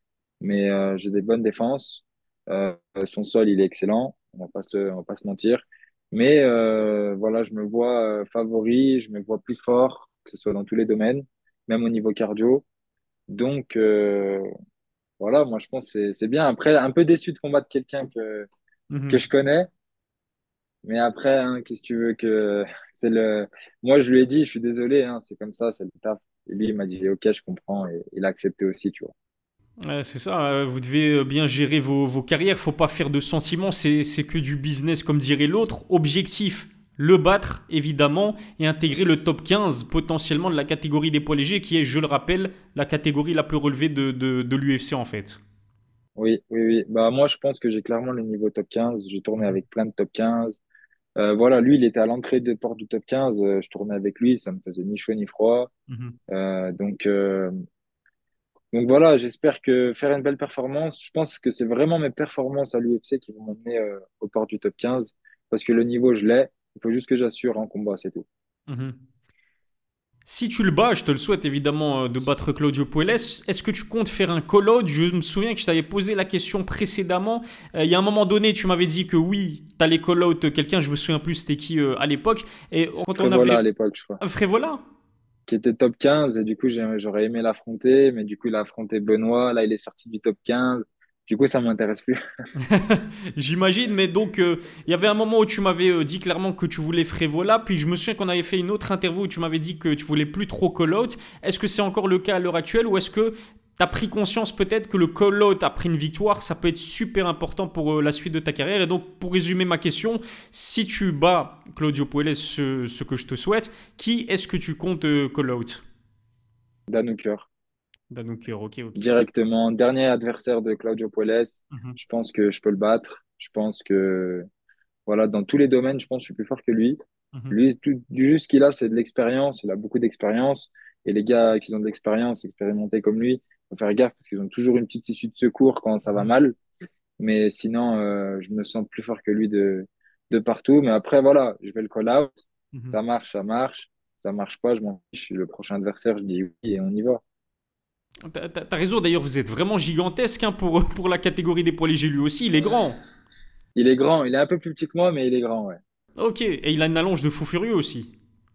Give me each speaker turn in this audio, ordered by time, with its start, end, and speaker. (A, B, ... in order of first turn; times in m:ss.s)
0:00.4-0:12.6 A
0:13.3-0:14.5 A
0:15.2-0:18.5 A
0:18.9-0:19.2 B
0:19.1-0:19.7 A
0:20.8-0:29.1 A
0:29.8-0:45.4 B
0:46.2-0:50.6 A
0:51.2-0:55.7 A
0:55.9-0:56.2 B
0:56.3-0:57.5 A
0:58.7-1:08.2 A
1:08.7-1:09.0 B
1:10.2-1:23.6 B
1:23.1-1:24.2 A
1:24.2-1:24.8 B
1:25.5-1:32.2 A
1:32.6-1:55.8 B
1:56.9-1:57.5 A
1:58.1-1:59.0 B
1:59.0-2:04.5 A
2:01.7-2:02.0 B
2:05.1-2:07.0 A
2:07.5-2:16.6 A
2:17.2-2:22.3 A
2:22.7-2:23.0 B
2:22.9-2:27.2 A
2:28.2-2:33.0 B
2:33.8-2:35.8 A
2:36.2-2:38.1 B